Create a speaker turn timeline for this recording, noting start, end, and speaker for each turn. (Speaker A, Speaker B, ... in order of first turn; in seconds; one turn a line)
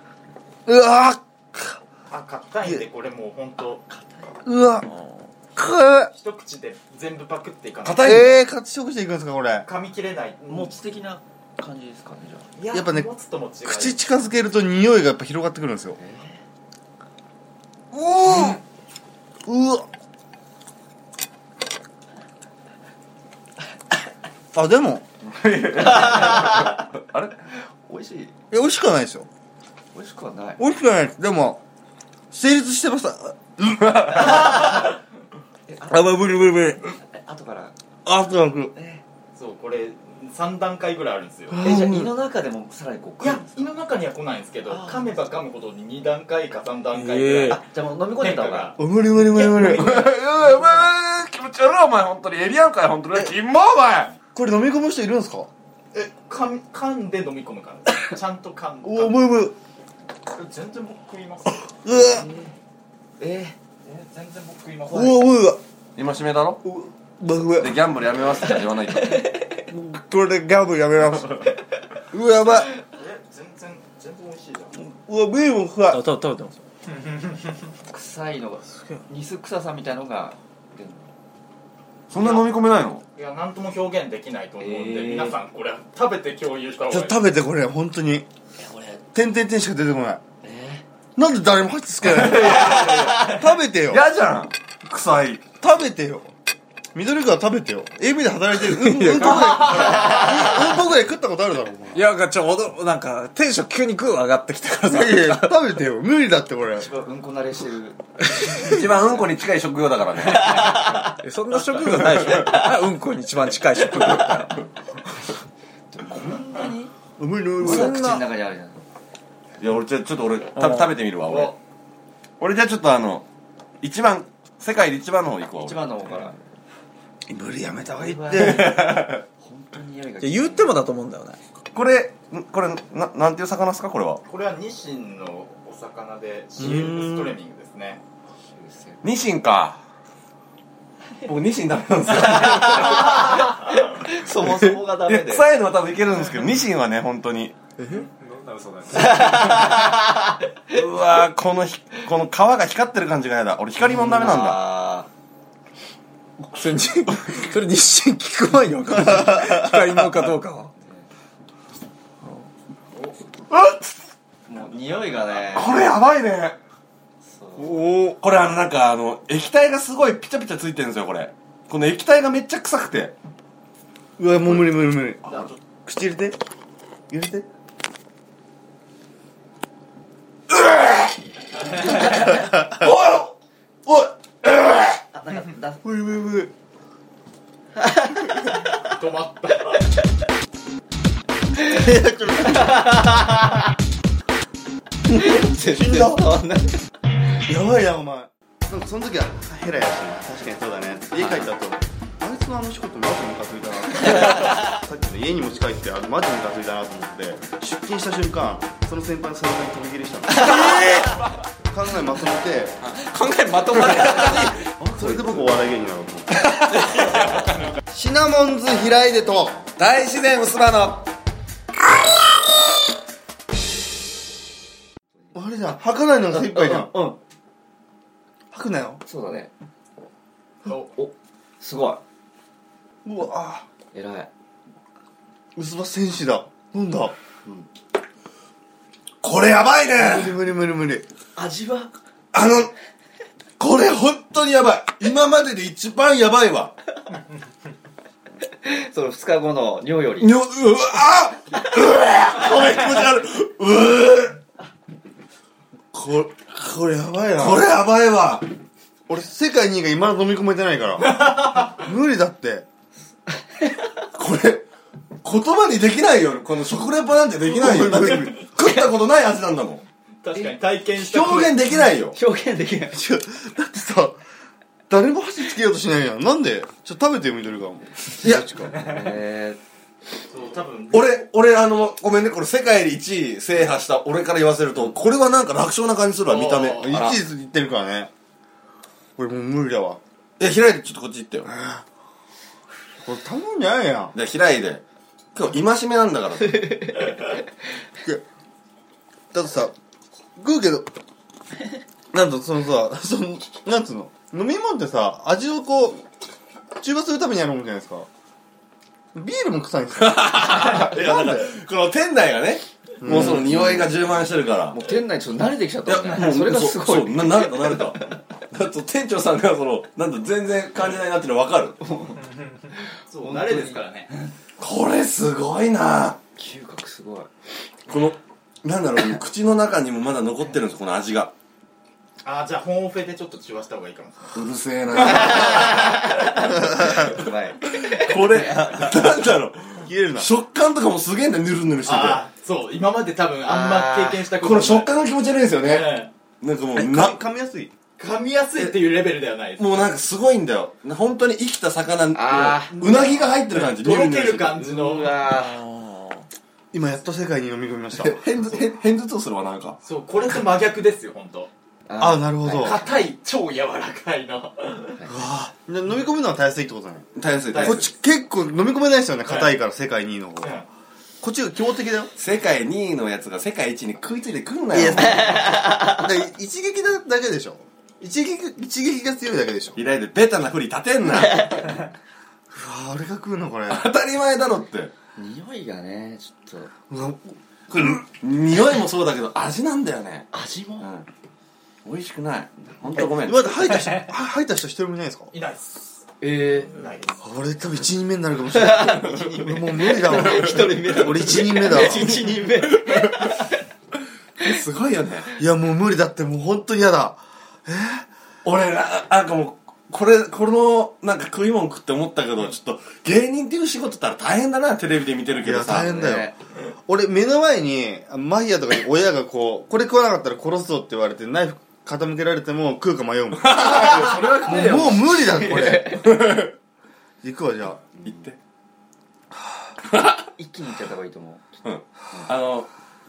Speaker A: 0.7-1.8
Speaker B: 2.1-3.8
Speaker C: 3.9-4.4
Speaker A: 4.4-4.9
Speaker A: 5.5-6.1
Speaker B: 6.1-8.3
Speaker D: 7.8-8.4
Speaker A: 8.0-9.7
Speaker B: 9.6-10.7
Speaker C: 10.5-12.5
Speaker B: 12.6-14.0
Speaker A: 12.7-13.1
Speaker A: 13.6-16.0
Speaker C: 16.0-16.4
Speaker A: 17.9-18.6
Speaker A: 19.4-19.9
Speaker A: 24.5-25.1
Speaker D: 25.3-27.3
Speaker C: 25.6-26.9
Speaker C: 27.5-28.3
Speaker A: 28.5-29.3
Speaker C: 29.9-30.6
Speaker A: 30.6-31.6
Speaker A: 32.3-34.6
Speaker D: 33.8-34.4
Speaker C: 34.4-34.8
Speaker C: 35.7-37.7
Speaker A: 35.9-36.9
Speaker A: 38.0-38.7
Speaker C: 38.7-39.0
Speaker B: 39.3-41.7
Speaker A: 41.5-42.1
Speaker C: 41.6-43.6
Speaker B: 43.2-47.6
Speaker C: 44.7-45.1
Speaker E: 46.9-47.6
Speaker C: 47.5-48.8
Speaker B: 48.1-50.2
Speaker A: 48.8-50.1
Speaker D: 49.6-54.1
Speaker C: 50.4-50.8
Speaker A: 54.3-55.5
Speaker B: 55.9-59.3
Speaker A: 58.8-59.6
Speaker B: 60.3-61.7
Speaker A: 61.6-62.3
Speaker C: 61.9-62.5
Speaker C: 63.2-63.6
Speaker B: 63.8-65.3
Speaker A: 64.9-65.6
Speaker D: 66.0-66.6
Speaker A: 66.6-67.8
Speaker D: 67.6-69.3
Speaker C: 68.5-69.7
Speaker A: 69.7-71.5
Speaker A: 72.1-72.7
Speaker B: 72.8-74.8
Speaker A: 74.7-76.0
Speaker E: 75.9-76.6
Speaker B: 77.0-77.3
Speaker C: 77.9-81.1
Speaker D: 82.1-83.0
Speaker B: 82.2-82.5
Speaker B: 83.1-87.2
Speaker C: 84.6-85.4
Speaker A: 86.9-88.3
Speaker A: 89.1-90.2
Speaker C: 90.4-90.8
Speaker A: 91.2-94.0
Speaker D: 92.0-95.5
Speaker C: 92.3-93.1
Speaker A: 95.6-96.3
Speaker A: 96.9-102.0
Speaker E: 98.8-99.9
Speaker C: 100.0-100.2
Speaker E: 101.9-105.5
Speaker A: 104.8-106.9
Speaker C: 106.7-109.3
Speaker D: 108.5-110.8
Speaker C: 110.2-111.2
Speaker E: 111.2-114.6
Speaker D: 111.9-112.6
Speaker C: 112.1-112.5
Speaker C: 114.0-114.3
Speaker C: 115.9-116.9
Speaker A: 117.2-118.0
Speaker C: 117.6-118.8
Speaker E: 117.6-118.2
Speaker D: 119.6-121.5
Speaker E: 120.6-120.9
Speaker B: 121.2-121.5
Speaker D: 122.4-123.2
Speaker D: 123.8-125.8
Speaker C: 125.6-126.3
Speaker A: 127.3-128.9
Speaker C: 127.9-128.8
Speaker D: 128.3-129.2
Speaker C: 129.4-130.8
Speaker E: 130.2-131.4
Speaker D: 131.7-134.2
Speaker B: 134.2-138.0
Speaker A: 136.6-137.4
Speaker C: 138.5-139.0
Speaker D: 139.0-139.8
Speaker D: 141.2-143.6
Speaker C: 142.3-145.5
Speaker D: 144.2-147.6
Speaker E: 147.8-148.1
Speaker D: 148.2-149.1
Speaker C: 148.9-150.8
Speaker D: 150.7-154.6
Speaker C: 154.0-155.1
Speaker E: 156.4-160.7
Speaker A: 159.1-160.0
Speaker C: 160.8-161.1
Speaker D: 163.5-163.8
Speaker C: 164.5-165.8
Speaker D: 165.4-166.6
Speaker C: 167.2-167.8
Speaker A: 167.6-168.2
Speaker D: 168.2-173.1
Speaker A: 174.2-176.4
Speaker D: 175.2-175.5
Speaker A: 177.1-177.5
Speaker D: 180.5-181.1
Speaker D: 181.8-183.3
Speaker A: 182.4-182.8
Speaker D: 183.9-184.7
Speaker C: 185.1-185.8
Speaker A: 185.8-186.5
Speaker C: 187.8-188.9
Speaker B: 188.8-189.9
Speaker A: 191.6-193.3
Speaker C: 191.6-193.6
Speaker A: 195.1-196.3
Speaker C: 195.1-196.9
Speaker A: 197.4-211.1
Speaker C: 201.2-201.5
Speaker D: 210.4-211.1
Speaker C: 210.4-210.9
Speaker A: 211.7-212.8
Speaker D: 212.8-214.5
Speaker C: 213.5-215.5
Speaker A: 214.9-216.6
Speaker C: 216.7-217.2
Speaker A: 217.9-219.7
Speaker D: 219.8-221.1
Speaker A: 225.3-227.0
Speaker C: 226.3-227.2
Speaker A: 228.5-229.0
Speaker C: 229.0-229.5
Speaker C: 230.7-232.0
Speaker A: 233.0-233.7
Speaker C: 233.9-234.3
Speaker A: 235.5-237.1
Speaker D: 239.2-240.4
Speaker A: 239.9-241.1
Speaker C: 241.3-241.9
Speaker D: 242.3-242.7
Speaker D: 243.6-246.7
Speaker C: 248.6-250.3
Speaker D: 250.2-254.4
Speaker A: 255.9-257.7
Speaker D: 257.4-258.5
Speaker A: 259.1-262.7
Speaker B: 261.1-261.8
Speaker C: 263.3-264.0
Speaker D: 264.1-264.6
Speaker D: 265.2-269.8
Speaker A: 267.5-268.4
Speaker C: 268.2-268.9
Speaker B: 270.2-271.8
Speaker D: 270.9-272.2
Speaker C: 272.1-273.0
Speaker A: 272.9-274.2
Speaker A: 274.9-278.8
Speaker C: 278.2-279.6
Speaker B: 280.3-281.3
Speaker D: 280.9-287.2
Speaker B: 286.2-287.0
Speaker A: 286.8-288.1
Speaker A: 289.2-290.0
Speaker D: 290.4-291.5
Speaker A: 291.4-291.8
Speaker A: 293.0-294.1
Speaker D: 294.1-294.8
Speaker D: 295.3-297.0
Speaker A: 299.3-299.7
Speaker A: 300.4-300.9
Speaker A: 302.1-306.0
Speaker A: 306.8-308.1
Speaker A: 309.1-311.5
Speaker D: 310.0-314.8
Speaker A: 313.0-313.8
Speaker C: 313.1-313.9
Speaker C: 314.7-318.2
Speaker D: 315.9-321.8
Speaker C: 321.8-324.3
Speaker B: 323.1-324.1
Speaker D: 324.6-326.2
Speaker C: 326.4-327.3
Speaker D: 327.9-331.3
Speaker B: 332.2-334.4
Speaker D: 334.3-337.1
Speaker B: 335.1-335.8
Speaker C: 335.1-338.2
Speaker D: 337.6-342.2
Speaker A: 339.8-340.3
Speaker B: 341.8-344.9
Speaker C: 343.4-344.3
Speaker D: 344.4-347.2
Speaker B: 345.6-346.1
Speaker A: 346.7-347.7
Speaker B: 348.0-349.9
Speaker D: 349.6-354.7
Speaker C: 352.1-352.8
Speaker B: 352.7-355.2
Speaker C: 354.6-355.6
Speaker D: 355.6-356.0
Speaker A: 356.7-358.4
Speaker D: 357.9-359.8
Speaker B: 359.8-361.5
Speaker C: 361.9-362.8
Speaker A: 362.0-362.9
Speaker B: 362.6-365.1
Speaker A: 365.1-370.6
Speaker D: 367.1-367.9
Speaker B: 367.5-367.8
Speaker B: 369.2-369.5
Speaker B: 370.4-370.6
Speaker A: 371.2-372.1
Speaker D: 372.2-375.6
Speaker A: 374.7-379.8
Speaker C: 375.2-376.0
Speaker D: 379.7-381.6
Speaker C: 381.3-381.6
Speaker A: 382.5-383.9
Speaker D: 383.7-384.9
Speaker C: 385.1-386.7
Speaker A: 386.9-388.0
Speaker D: 388.0-390.3
Speaker C: 390.3-390.9
Speaker D: 390.8-391.1
Speaker D: 391.8-393.6
Speaker C: 392.7-393.1
Speaker A: 393.0-395.3
Speaker B: 395.3-396.1
Speaker C: 396.2-396.8
Speaker B: 396.7-397.2
Speaker A: 397.2-402.2
Speaker C: 398.5-403.5
Speaker D: 400.0-400.8
Speaker D: 401.7-403.4
Speaker D: 404.4-405.4
Speaker A: 405.4-408.1
Speaker D: 408.4-416.0
Speaker A: 415.4-416.3
Speaker C: 415.7-416.4
Speaker A: 416.8-426.1
Speaker D: 423.4-426.5
Speaker C: 424.5-426.1
Speaker A: 427.2-427.8
Speaker D: 428.0-428.4
Speaker D: 429.8-430.3
Speaker C: 430.4-431.6
Speaker D: 431.6-432.7